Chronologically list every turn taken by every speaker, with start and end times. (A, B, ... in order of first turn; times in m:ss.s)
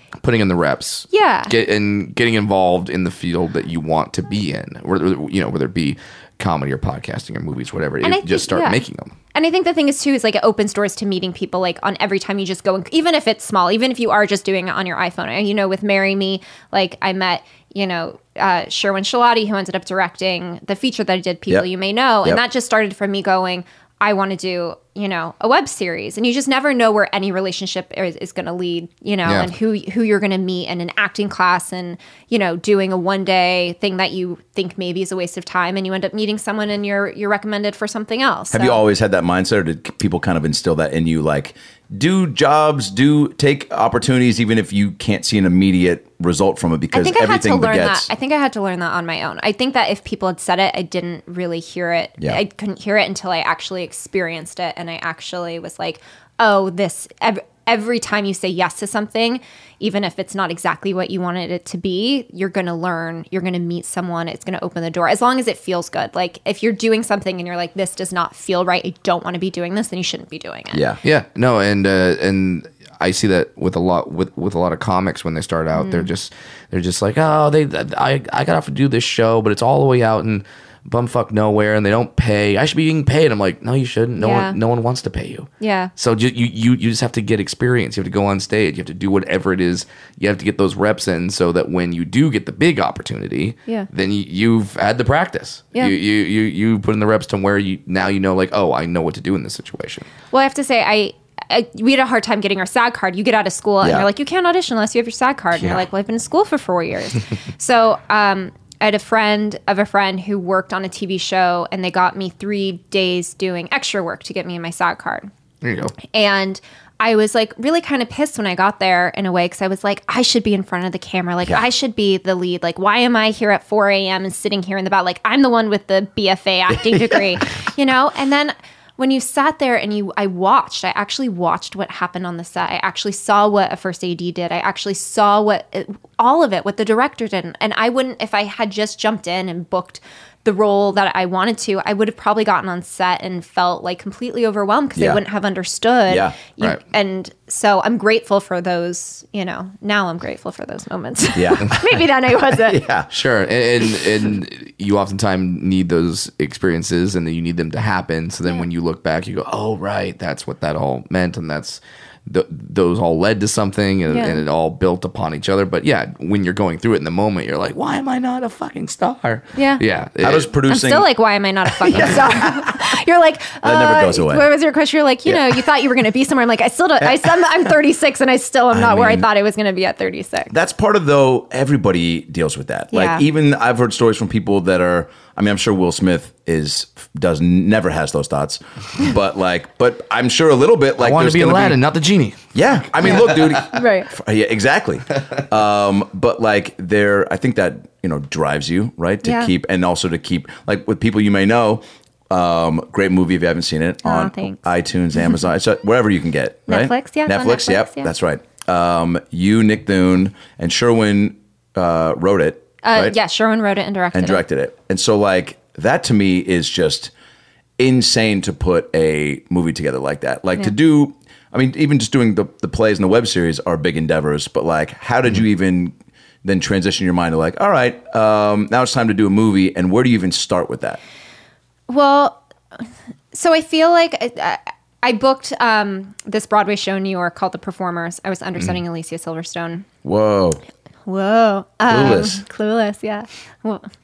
0:00.2-0:09.1 A
0:01.1-0:01.5 B
0:08.0-0:08.8 B
0:09.3-0:38.8 B
0:29.3-0:29.5 A
0:38.5-0:48.1 C
0:46.9-1:10.8 B
1:10.7-1:11.0 C
1:11.0-1:40.1 A
1:15.7-1:16.1 B
1:24.2-1:24.6 B
1:25.6-1:25.9 B
1:40.3-1:55.3 B
1:43.8-1:44.1 C
1:55.6-1:55.9 A
1:56.0-2:32.8 B
2:06.7-2:07.4 C
2:25.0-2:25.2 C
2:26.1-2:26.4 C
2:31.4-2:31.8 C
2:32.5-2:33.1 C
2:33.1-2:50.5 A
2:44.1-2:44.4 B
2:49.6-2:49.8 B
2:50.2-2:51.1 C
2:50.7-3:00.5 B
2:51.8-2:52.9 C
2:53.6-2:54.5 C
2:55.3-2:55.6 C
2:57.0-2:57.4 C
2:58.7-2:59.3 C
3:00.5-3:11.8 C
3:02.9-3:03.2 B
3:11.0-3:12.4 A
3:12.6-3:33.2 C
3:13.0-3:13.7 A
3:13.7-3:14.1 B
3:19.2-3:19.5 B
3:24.0-3:24.6 B
3:26.7-3:28.1 B
3:32.8-3:34.4 B
3:34.1-3:37.1 C
3:37.8-3:51.0 C
3:51.9-3:52.4 B
3:53.3-3:59.9 B
4:00.0-4:00.6 C
4:01.1-4:03.9 B
4:01.9-4:02.4 C